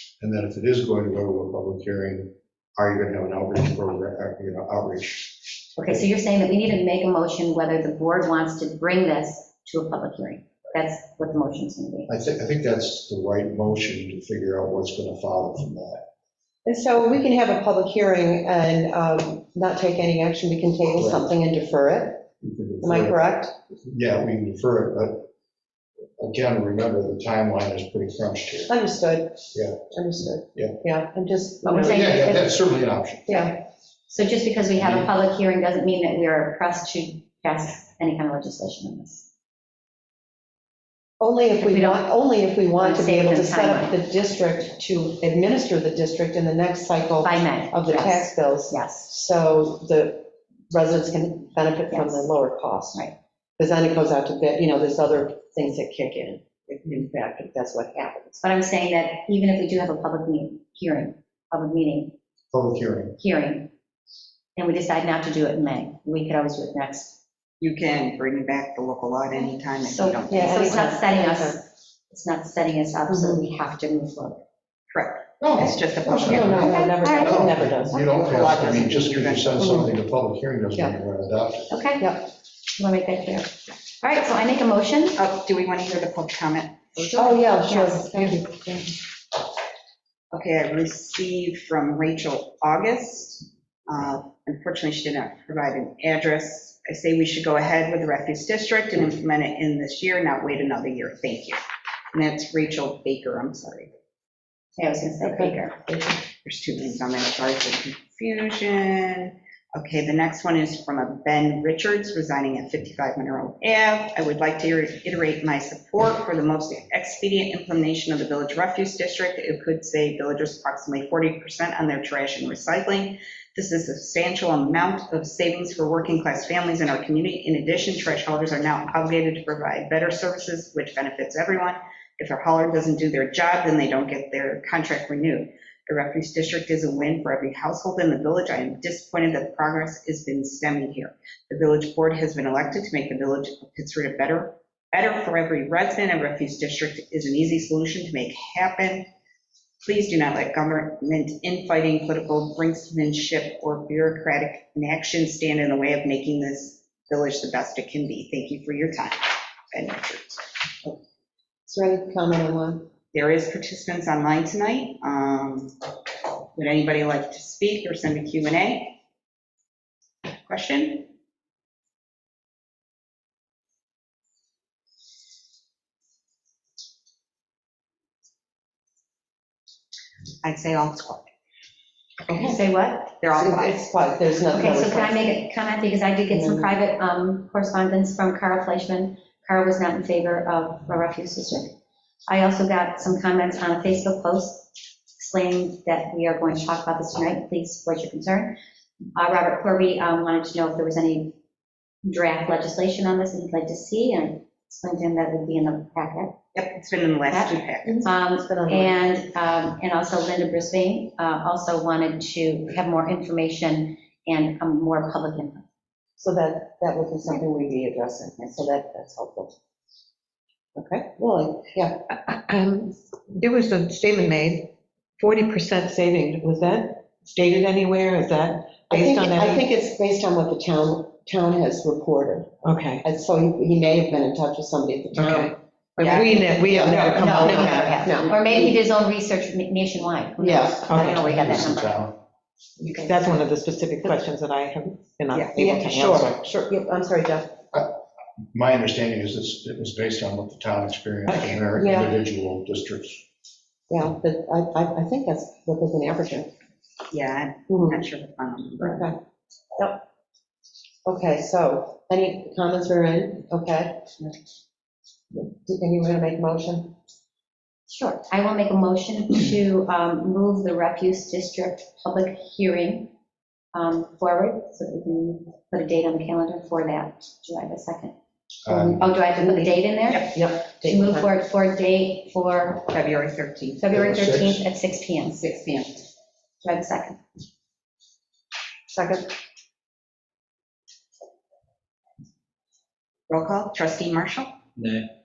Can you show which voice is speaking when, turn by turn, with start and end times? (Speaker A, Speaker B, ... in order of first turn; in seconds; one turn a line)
Speaker A: 0.2-6.0
Speaker B: 5.8-12.1
Speaker A: 12.1-16.1
Speaker C: 16.6-22.3
Speaker A: 20.9-21.2
Speaker A: 22.4-23.2
Speaker C: 22.8-23.5
Speaker A: 23.9-25.3
Speaker A: 26.2-28.7
Speaker C: 28.7-32.3
Speaker A: 29.5-29.8
Speaker B: 31.7-32.5
Speaker A: 31.8-33.5
Speaker C: 33.3-33.6
Speaker B: 34.1-39.3
Speaker A: 34.8-35.1
Speaker C: 41.2-53.0
Speaker B: 41.6-42.1
Speaker B: 42.8-44.0
Speaker B: 47.2-49.1
Speaker B: 51.9-52.3
Speaker C: 53.6-58.4
Speaker B: 58.4-62.1
Speaker A: 62.5-63.2
Speaker B: 63.2-63.7
Speaker B: 64.5-67.2
Speaker D: 67.6-70.8
Speaker B: 69.8-74.4
Speaker C: 70.3-71.6
Speaker C: 73.1-73.4
Speaker D: 74.9-76.6
Speaker A: 75.4-81.8
Speaker C: 76.0-79.0
Speaker B: 76.5-77.5
Speaker D: 78.2-79.8
Speaker C: 79.6-79.9
Speaker B: 81.7-85.2
Speaker C: 82.0-82.3
Speaker D: 85.2-87.9
Speaker C: 87.0-88.9
Speaker B: 87.4-88.3
Speaker D: 90.3-101.6
Speaker D: 102.1-103.9
Speaker B: 104.8-105.7
Speaker D: 105.2-105.7
Speaker C: 105.9-106.1
Speaker D: 106.4-149.1
Speaker D: 149.8-160.4
Speaker C: 161.7-162.9
Speaker D: 163.1-165.7
Speaker D: 166.5-169.0
Speaker D: 170.4-171.1
Speaker D: 180.4-181.3
Speaker C: 182.3-182.6
Speaker B: 182.3-183.1
Speaker D: 183.2-183.8
Speaker C: 183.3-185.4
Speaker B: 184.5-191.7
Speaker C: 186.3-186.7
Speaker B: 192.3-198.6
Speaker B: 199.2-201.3
Speaker B: 202.0-206.4
Speaker D: 206.5-208.0
Speaker B: 207.3-215.6
Speaker C: 207.8-209.0
Speaker C: 216.2-219.5
Speaker C: 220.7-222.0
Speaker E: 222.1-229.7
Speaker C: 228.9-238.7
Speaker E: 232.6-233.0
Speaker E: 235.1-238.0
Speaker D: 236.0-238.3
Speaker B: 237.2-242.1
Speaker C: 240.4-241.0
Speaker E: 240.8-241.2
Speaker A: 241.0-242.2
Speaker E: 242.8-246.4
Speaker C: 245.5-247.5
Speaker A: 247.7-248.0
Speaker A: 248.5-253.2
Speaker E: 251.3-251.6
Speaker C: 251.8-252.2
Speaker C: 253.9-256.5
Speaker D: 257.1-259.1
Speaker C: 257.7-258.0
Speaker C: 258.8-259.2
Speaker C: 261.0-264.1
Speaker C: 265.3-266.9
Speaker B: 267.9-273.1
Speaker B: 273.7-278.1
Speaker A: 278.6-279.1
Speaker C: 278.7-279.8
Speaker B: 278.9-282.9
Speaker D: 280.1-280.3
Speaker C: 280.3-281.3
Speaker D: 282.9-283.9
Speaker B: 283.8-285.4
Speaker A: 283.9-284.6
Speaker D: 285.2-286.1
Speaker B: 286.6-287.2
Speaker C: 288.9-289.3
Speaker D: 293.3-294.6